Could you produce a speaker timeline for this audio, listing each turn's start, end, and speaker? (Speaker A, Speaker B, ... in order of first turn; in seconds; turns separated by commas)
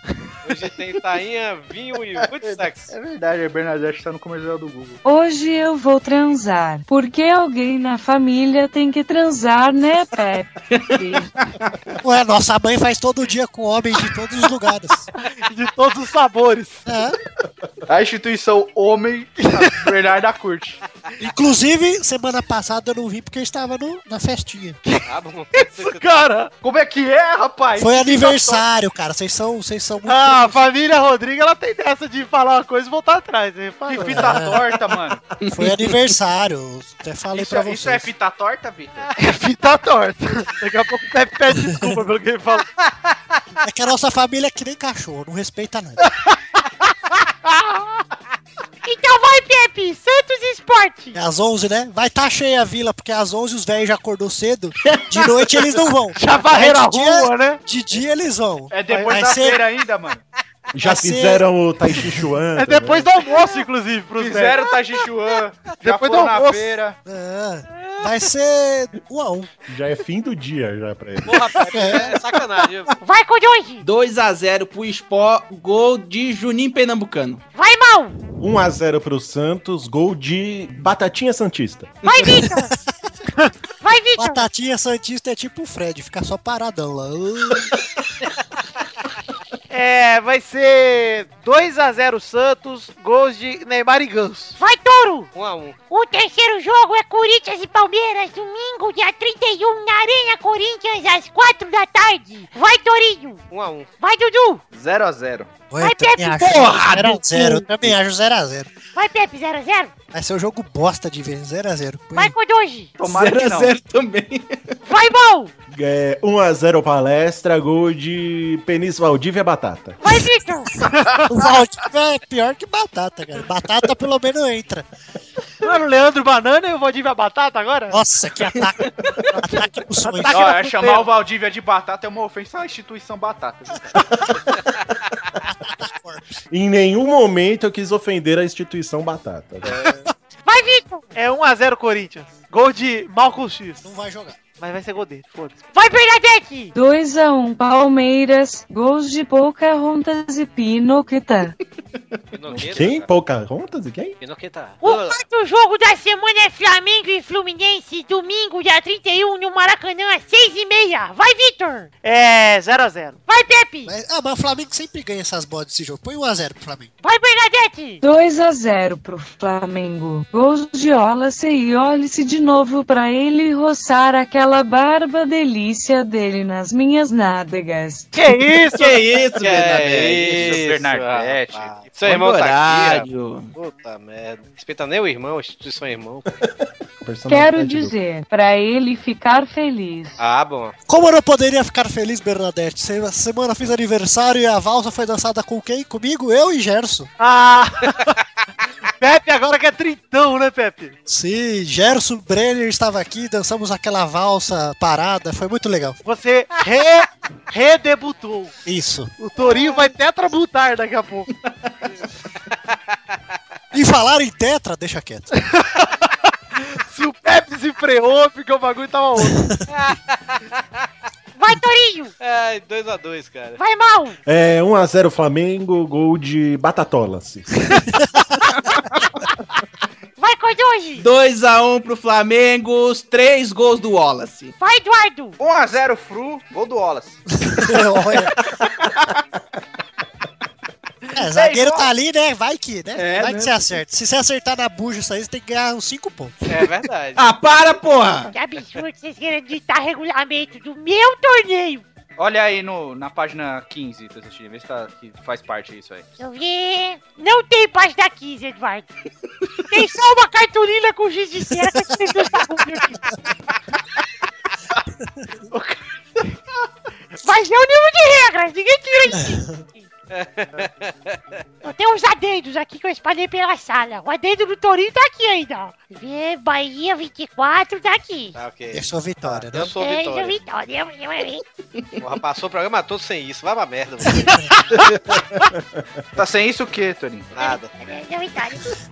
Speaker A: 0.4-2.9, Speaker B: 2.4-5.0, Speaker C: 5.0-11.3, Speaker D: 10.7-11.7, Speaker E: 12.0-15.1, Speaker F: 15.2-16.9, Speaker E: 16.9-17.2, Speaker B: 17.9-20.8, Speaker E: 21.2-24.8, Speaker F: 24.8-26.5, Speaker A: 25.1-26.2, Speaker B: 26.6-28.6, Speaker E: 27.8-30.6, Speaker F: 30.0-34.5, Speaker B: 33.9-35.2, Speaker E: 34.0-34.6, Speaker D: 35.4-35.9, Speaker E: 35.5-38.1, Speaker B: 37.3-39.1, Speaker F: 39.2-42.7, Speaker B: 42.8-43.1, Speaker E: 43.6-46.1, Speaker G: 48.8-51.2, Speaker E: 51.1-59.6, Speaker F: 56.1-57.6, Speaker B: 58.7-60.2, Speaker H: 60.7-63.1, Speaker E: 60.8-61.4, Speaker F: 62.6-64.6, Speaker B: 64.2-67.0, Speaker F: 65.8-66.7, Speaker E: 67.0-69.5, Speaker H: 69.7-71.6, Speaker A: 71.2-72.9, Speaker E: 71.7-72.2, Speaker G: 73.0-73.8, Speaker D: 73.8-77.4, Speaker G: 77.5-78.2, Speaker H: 78.4-82.0, Speaker G: 82.0-82.7, Speaker E: 82.3-82.8, Speaker G: 83.8-84.5, Speaker E: 84.2-87.7, Speaker F: 89.7-94.6, Speaker G: 94.6-95.3, Speaker A: 95.3-95.8, Speaker G: 95.9-103.4, Speaker A: 103.5-103.9, Speaker G: 104.0-104.6, Speaker B: 104.7-105.5, Speaker E: 105.7-108.7, Speaker G: 105.8-106.6, Speaker D: 106.4-107.7, Speaker G: 108.9-109.9, Speaker E: 110.1-112.3, Speaker G: 112.1-112.9, Speaker B: 113.0-113.7, Speaker D: 113.0-114.8, Speaker G: 114.8-115.5, Speaker H: 115.7-120.0, Speaker G: 120.0-120.8, Speaker F: 120.8-121.2, Speaker E: 121.2-124.8, Speaker F: 125.6-128.0, Speaker E: 127.9-130.4, Speaker F: 130.0-131.1, Speaker B: 130.3-134.1, Speaker H: 133.9-134.3, Speaker E: 135.4-136.3, Speaker H: 136.5-139.9, Speaker G: 140.4-141.1, Speaker F: 141.1-143.8, Speaker E: 143.8-144.4, Speaker F: 144.6-145.6, Speaker G: 145.7-146.7, Speaker C: 146.7-151.6, Speaker A: 152.3-153.1, Speaker H: 152.6-154.2, Speaker A: 154.2-155.2, Speaker G: 154.8-161.9, Speaker F: 162.0-163.2, Speaker G: 163.3-163.9, Speaker E: 163.8-166.9, Speaker G: 167.0-168.0, Speaker C: 168.0-178.1, Speaker F: 178.2-179.2, Speaker D: 178.7-180.6, Speaker A: 179.4-186.2, Speaker B: 180.3-182.0, Speaker D: 182.0-183.5, Speaker H: 186.4-187.9, Speaker C: 187.3-190.2, Speaker A: 190.2-190.7, Speaker E: 190.9-197.1, Speaker F: 197.2-198.2, Speaker F: 199.0-201.0, Speaker E: 201.1-206.0, Speaker F: 206.0-208.5, Speaker E: 208.6-209.1, Speaker F: 209.2-211.3, Speaker E: 213.7-215.3, Speaker F: 215.3-219.4, Speaker E: 219.2-219.6, Speaker A: 219.7-220.4, Speaker G: 221.3-222.1, Speaker A: 222.2-223.6, Speaker G: 223.6-224.2, Speaker H: 224.2-227.8, Speaker G: 230.2-231.0, Speaker D: 231.0-234.5, Speaker G: 234.6-235.4, Speaker B: 235.4-237.2, Speaker E: 237.4-238.3, Speaker D: 238.3-238.6, Speaker E: 241.1-246.4, Speaker B: 241.3-241.9, Speaker B: 243.1-243.5, Speaker A: 246.5-247.3, Speaker D: 247.2-248.3, Speaker G: 248.3-251.8, Speaker B: 252.2-256.1, Speaker G: 256.2-258.9, Speaker G: 259.7-263.1, Speaker B: 265.5-265.8, Speaker G: 267.2-269.9, Speaker E: 269.1-269.5, Speaker A: 270.1-271.2, Speaker G: 271.6-278.3, Speaker A: 278.3-280.4, Speaker E: 278.7-279.7, Speaker G: 279.8-281.4, Speaker A: 282.0-284.6, Speaker H: 284.7-285.8, Speaker B: 286.1-287.3, Speaker A: 287.4-287.7, Speaker G: 287.4-288.7